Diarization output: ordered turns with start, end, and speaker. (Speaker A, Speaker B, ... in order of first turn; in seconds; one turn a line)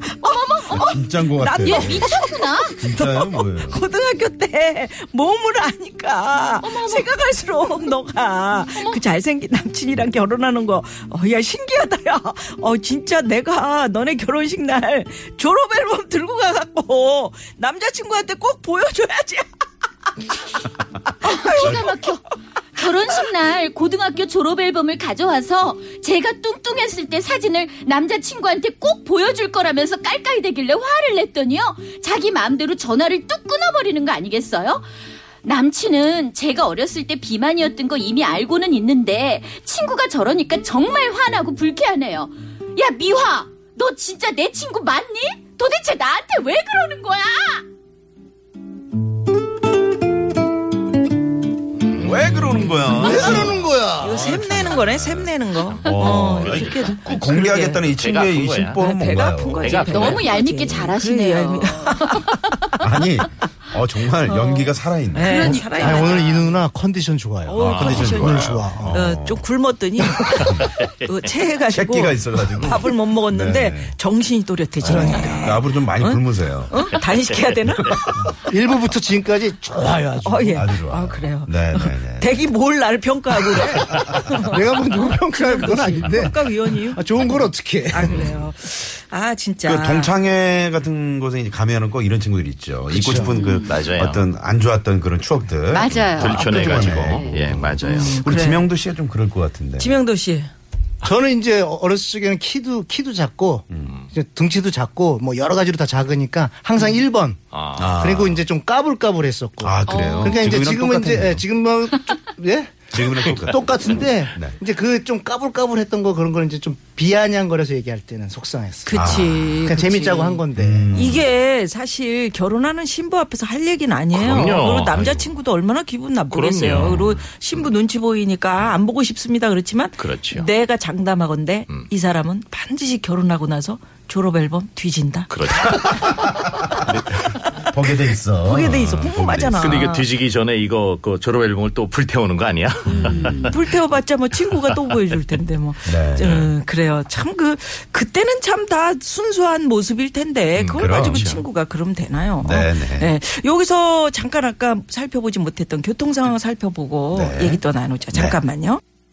Speaker A: 0.2-1.0
Speaker B: 0.7-2.1
Speaker C: 0.8-19.5
Speaker A: 1.6-2.8
Speaker B: 2.8-3.8
Speaker A: 6.6-7.1
Speaker C: 21.2-22.1
Speaker A: 21.2-22.2
Speaker A: 22.8-34.8
Speaker A: 35.4-47.6
Speaker B: 51.9-60.2
Speaker D: 52.0-52.6
Speaker C: 52.9-57.9
Speaker E: 52.9-54.4
Speaker D: 55.8-58.8
Speaker C: 58.8-62.8
Speaker D: 59.6-60.3
Speaker A: 59.8-62.5
Speaker B: 62.8-65.6
Speaker C: 64.3-66.5
Speaker A: 65.2-66.3
Speaker E: 65.8-69.0
Speaker C: 67.5-78.0
Speaker B: 67.6-69.5
Speaker D: 67.6-68.2
Speaker D: 70.6-71.1
Speaker B: 71.7-74.0
Speaker B: 74.8-76.8
Speaker E: 74.8-75.5
Speaker E: 78.2-80.7
Speaker C: 80.2-90.1
Speaker B: 80.5-82.4
Speaker E: 83.6-88.2
Speaker B: 88.0-88.4
Speaker B: 89.7-100.0
Speaker E: 92.9-93.4
Speaker A: 93.3-93.7
Speaker D: 93.7-94.2
Speaker A: 95.7-97.4
Speaker D: 96.1-98.2
Speaker C: 97.8-98.7
Speaker C: 99.8-100.5
Speaker E: 101.0-107.4
Speaker D: 107.5-108.0
Speaker B: 107.8-108.4
Speaker E: 108.0-120.9
Speaker B: 109.6-111.4
Speaker A: 109.9-110.4
Speaker B: 112.9-114.6
Speaker C: 118.9-120.4
Speaker B: 118.9-119.6
Speaker B: 120.5-121.3
Speaker C: 120.9-136.0
Speaker D: 124.1-125.3
Speaker D: 126.3-127.0
Speaker B: 126.8-127.2
Speaker D: 130.0-130.5
Speaker D: 135.3-137.2
Speaker B: 135.8-136.4
Speaker B: 137.6-139.9
Speaker C: 138.4-140.1
Speaker D: 139.6-143.5
Speaker B: 142.9-143.5
Speaker C: 143.4-158.8
Speaker B: 145.9-146.5
Speaker D: 150.6-151.4
Speaker B: 150.8-151.3
Speaker B: 152.4-153.1
Speaker B: 157.1-157.6